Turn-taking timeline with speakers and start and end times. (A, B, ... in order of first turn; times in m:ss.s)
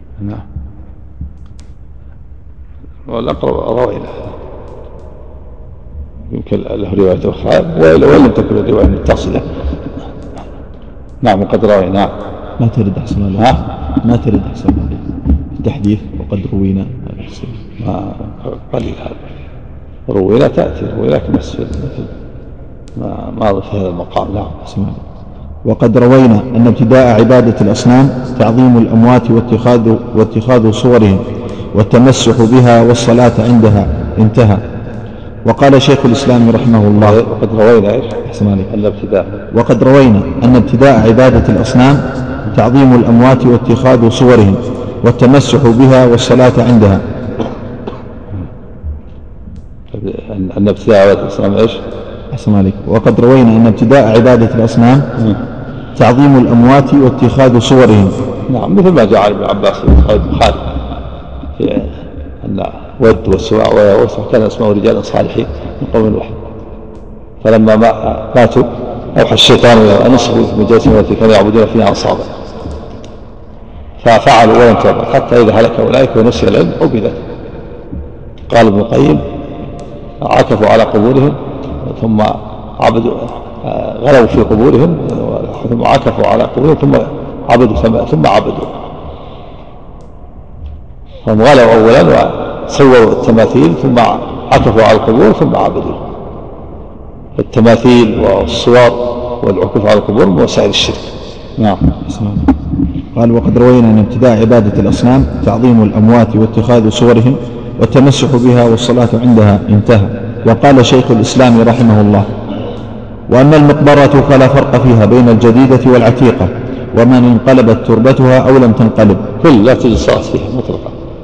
0:03.1-0:04.3 A
0:06.3-0:09.4 A
0:11.2-0:12.1 A
0:12.6-0:17.6 B
0:17.8-0:19.2 A
0:20.1-0:22.1 A
0:23.0-0:24.5 A
0:24.6-0:25.0 B
0:25.6-0:34.6 B
0:35.4-0:37.2 B
0:37.0-0:39.4 A
0:38.2-0:38.7 B
0:39.5-0:47.0 B
0:49.9-0:51.8 A
0:52.3-0:55.1 B
0:56.0-0:58.2 B
0:58.5-1:00.6 A
1:01.6-1:06.3 A
1:07.4-1:12.3 A
1:14.0-1:17.2 A
1:18.5-1:19.2 A
1:20.2-1:28.7 A
1:31.2-1:36.0 A
1:37.4-1:41.8 A
1:42.0-1:42.5 B
1:43.1-1:52.3 B
1:53.3-1:59.3 B
1:59.4-2:00.9 A